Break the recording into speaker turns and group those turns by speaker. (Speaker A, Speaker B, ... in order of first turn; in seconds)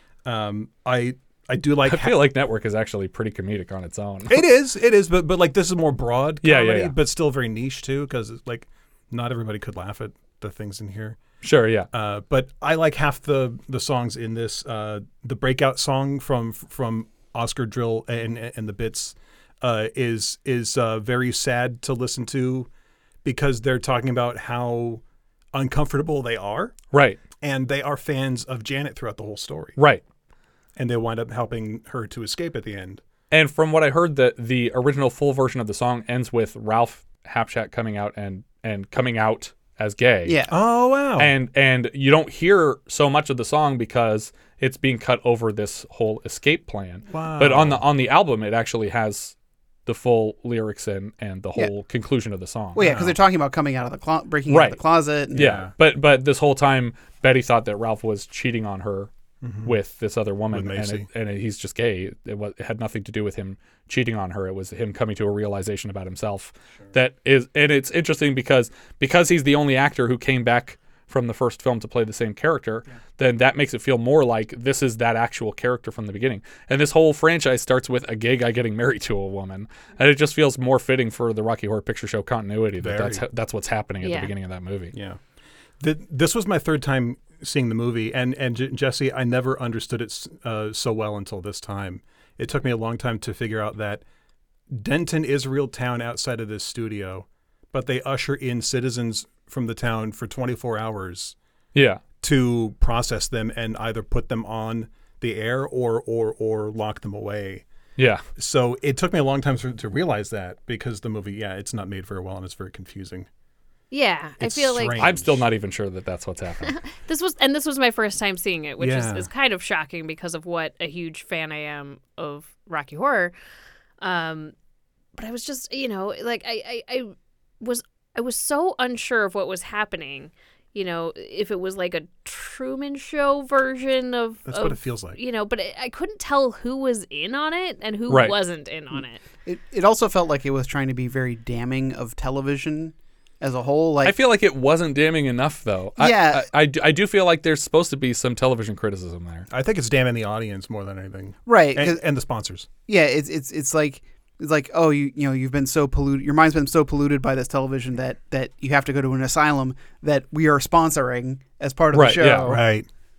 Speaker A: 0.2-2.3, 4.3-11.2, 11.9-22.7, 23.2-25.0, 25.5-26.8, 27.4-29.8, 30.8-33.0, 40.5-41.3, 47.1-47.8, 52.8-53.1, 55.3-55.7, 59.4-59.7, 60.5-61.1, 82.8-83.2, 84.9-85.2, 85.8-94.0, 94.7-101.3, 102.2-107.6, 108.3-113.3, 114.4-115.5, 118.8-119.3, 134.4-135.2, 149.5-152.7, 162.4-162.9
Speaker B: 1.9-4.4, 6.4-6.9, 11.4-11.9, 26.9-27.2, 29.8-30.0, 33.3-40.4, 41.2-49.3, 49.9-52.8, 54.5-59.1, 59.6-84.9, 101.7-102.0, 108.0-108.2, 115.0-116.8, 138.1-138.3, 144.0-149.5, 161.9-162.6
Speaker C: 40.2-40.5, 52.7-55.6, 139.4-144.1, 146.0-146.5, 151.5-152.0, 152.9-162.6
Speaker D: 84.0-84.3, 113.9-115.0, 116.6-123.3, 124.0-124.5, 125.2-139.2